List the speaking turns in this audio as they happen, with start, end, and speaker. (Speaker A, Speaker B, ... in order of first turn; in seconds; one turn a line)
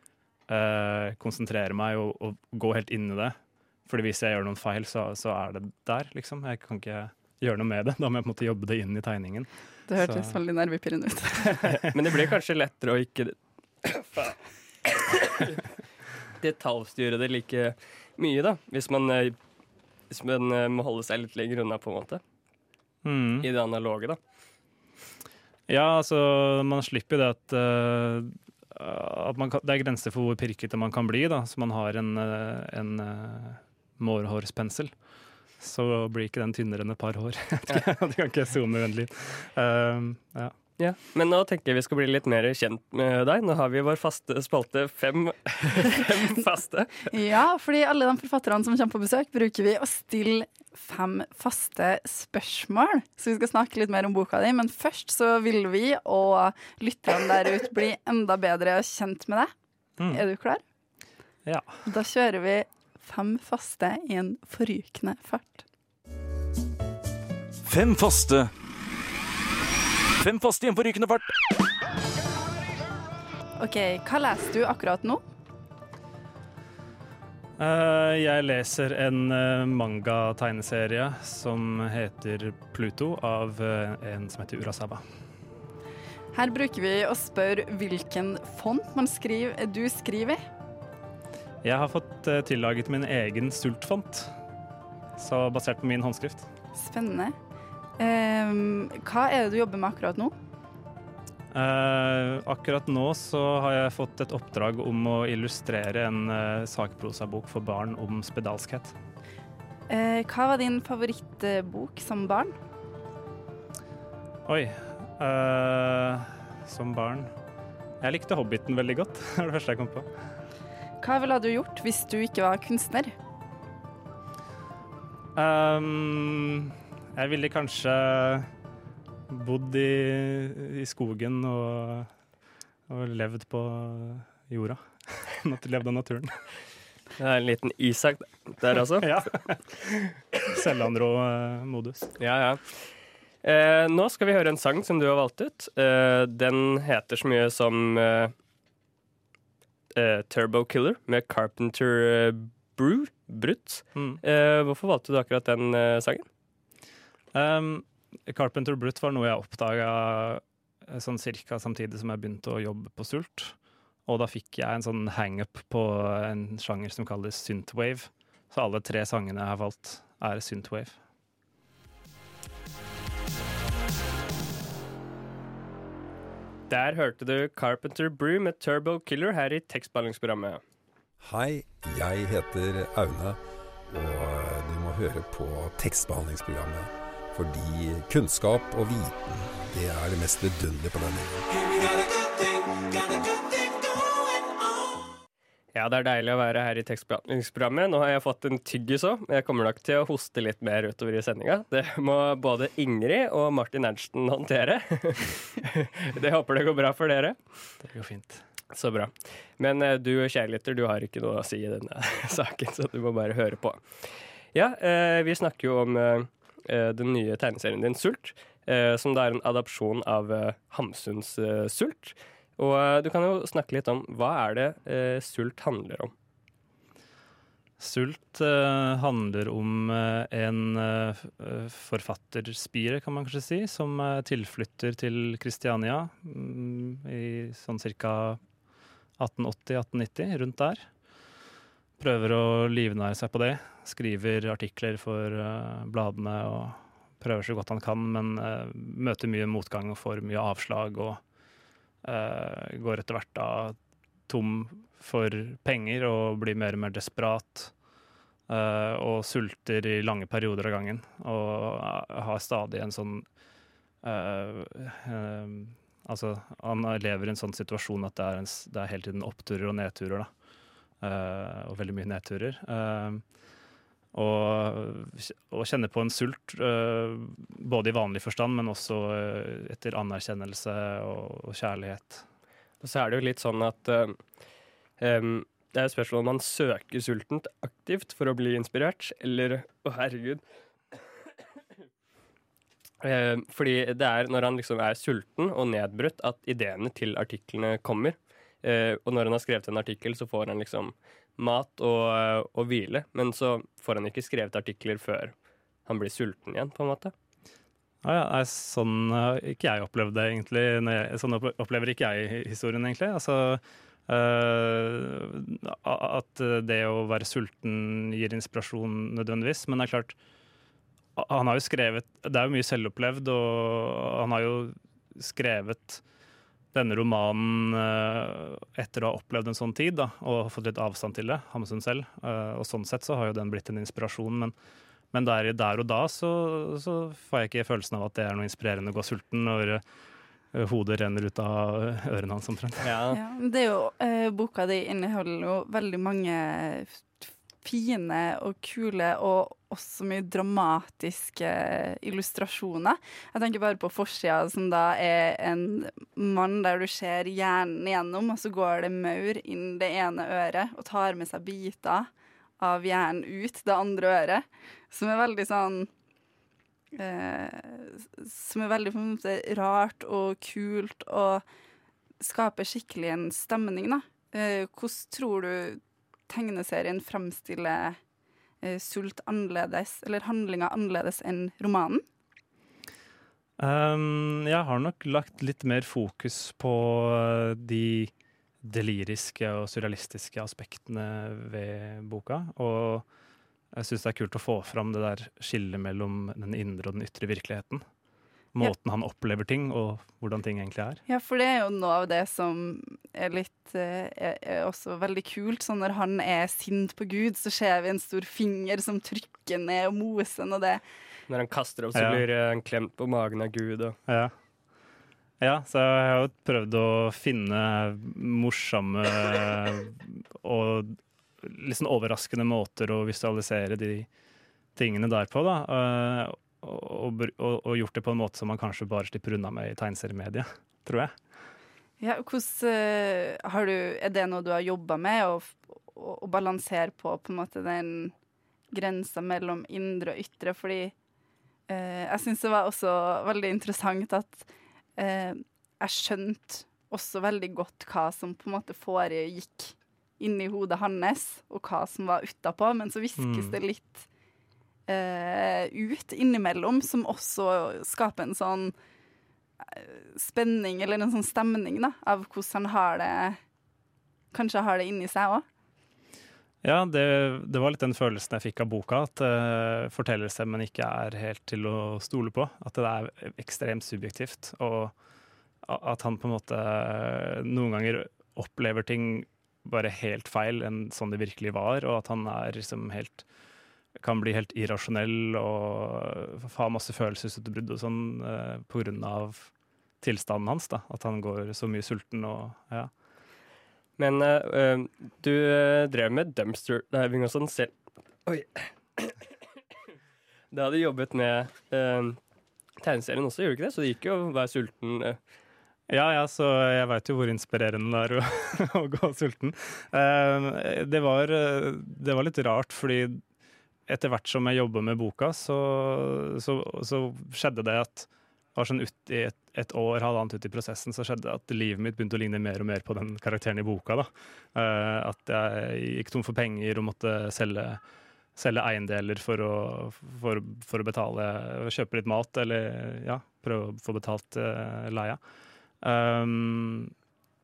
Speaker A: 0.5-10.4
Speaker B: 9.9-11.6
Speaker C: 11.9-15.6
Speaker C: 16.4-19.4
Speaker C: 20.1-22.2
Speaker A: 23.0-23.5
Speaker C: 23.4-24.2
Speaker A: 25.7-34.9
Speaker A: 35.6-40.5
Speaker C: 40.8-47.1
Speaker B: 47.1-59.5
Speaker B: 60.1-60.6
Speaker B: 61.9-65.6
Speaker D: 67.6-68.5
Speaker D: 70.2-71.4
Speaker B: 73.6-75.2
Speaker A: 77.6-85.0
Speaker B: 86.3-90.4
Speaker A: 91.6-94.3
Speaker A: 95.2-96.5
Speaker B: 96.8-97.3
Speaker B: 98.0-100.3
Speaker A: 101.5-109.0
Speaker B: 109.9-112.6
Speaker A: 114.5-117.3
Speaker A: 118.0-120.1
Speaker B: 121.0-123.1
Speaker A: 125.3-128.5
Speaker A: 129.3-132.1
Speaker A: 132.9-136.4
Speaker C: 137.2-139.1
Speaker A: 139.0-142.1
Speaker C: 142.2-142.9
Speaker C: 143.4-148.3
Speaker C: 149.9-156.2
Speaker A: 154.0-154.2
Speaker A: 157.3-163.6
Speaker A: 164.1-171.0
Speaker C: 176.7-180.6
Speaker E: 181.2-191.6
Speaker C: 195.7-207.4
Speaker A: 207.8-208.4
Speaker C: 208.7-226.1
Speaker A: 227.8-238.4
Speaker A: 239.2-240.9
Speaker A: 242.0-251.2
Speaker A: 252.0-253.8
Speaker A: 254.3-257.7
Speaker A: 258.5-263.3
Speaker A: 264.0-270.3
Speaker A: 271.0-273.2
Speaker A: 274.1-282.2
Speaker C: 282.8-284.2
Speaker C: 285.0-290.4
Speaker C: 293.0-305.3
Speaker C: 305.9-307.1
Speaker A: 308.0-320.1
Speaker A: 321.2-326.0
Speaker A: 326.7-334.5
Speaker A: 335.1-339.8
Speaker A: 340.5-343.0
Speaker C: 342.8-343.2
Speaker B: 343.1-365.9
Speaker B: 366.9-371.4
Speaker B: 372.2-378.0
Speaker B: 378.6-382.0
Speaker A: 383.6-388.1
Speaker A: 388.6-393.1
Speaker A: 393.7-397.8
Speaker A: 398.6-401.0
Speaker B: 401.1-410.8
Speaker C: 411.3-414.0
Speaker A: 412.0-412.2
Speaker A: 414.1-414.3
Speaker A: 415.4-424.1
Speaker A: 424.8-431.1
Speaker B: 432.0-438.1
Speaker B: 438.7-440.9
Speaker B: 441.7-454.1
Speaker A: 453.2-453.6
Speaker B: 454.9-458.7
Speaker B: 459.6-463.4
Speaker B: 464.3-465.4
Speaker A: 466.6-474.9
Speaker A: 475.6-483.2
Speaker A: 484.0-489.5
Speaker A: 490.0-492.9
Speaker C: 494.0-497.7
Speaker C: 498.3-499.3
Speaker C: 500.5-502.2
Speaker C: 502.8-505.2
Speaker A: 505.9-513.2
Speaker A: 513.9-527.8
Speaker A: 528.4-535.2
Speaker A: 535.8-536.9